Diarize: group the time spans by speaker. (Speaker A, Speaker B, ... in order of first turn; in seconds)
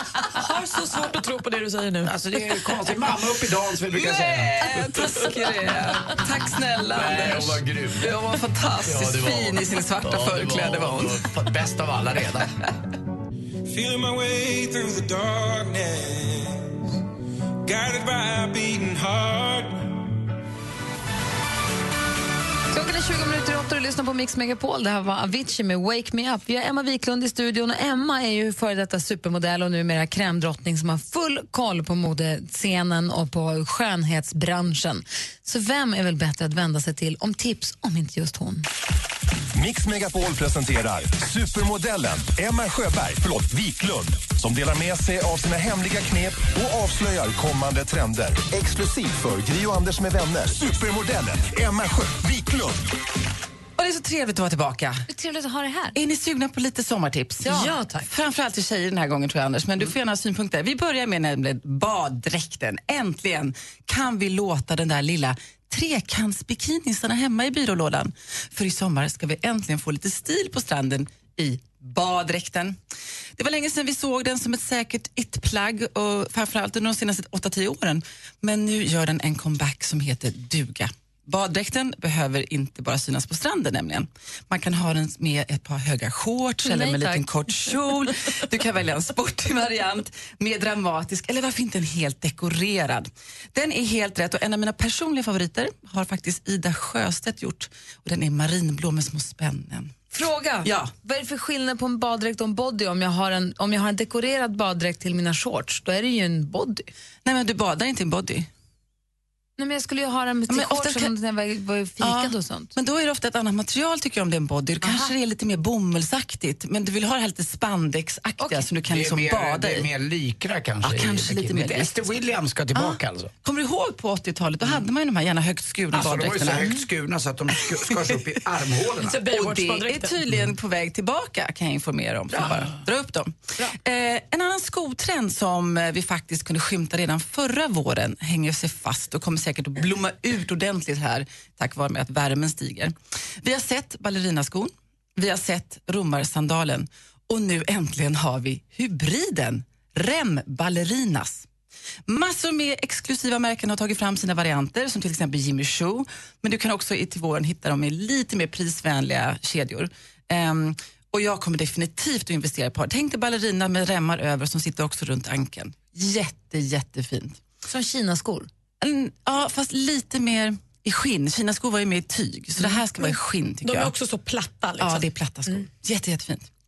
Speaker A: 0.3-2.2, 57.4-58.1, 129.0-130.2, 173.6-175.1
Speaker B: 2.0-4.8, 6.9-8.1, 8.8-12.5, 118.9-123.3, 125.9-129.2
Speaker C: 3.9-11.2, 53.8-55.0, 55.9-72.8, 73.4-99.9, 100.6-100.9, 107.2-108.5, 110.5-111.1, 112.0-119.9, 120.8-122.1, 122.7-126.8, 129.3-151.5, 152.1-167.4, 168.8-173.9, 174.8-176.5
Speaker D: 13.7-16.7, 17.6-19.8
Speaker E: 22.7-38.7, 55.1-56.0, 86.6-87.5, 100.1-106.9, 109.6-112.7, 114.8-115.1, 118.4-118.7, 167.7-168.5
Speaker F: 39.5-52.9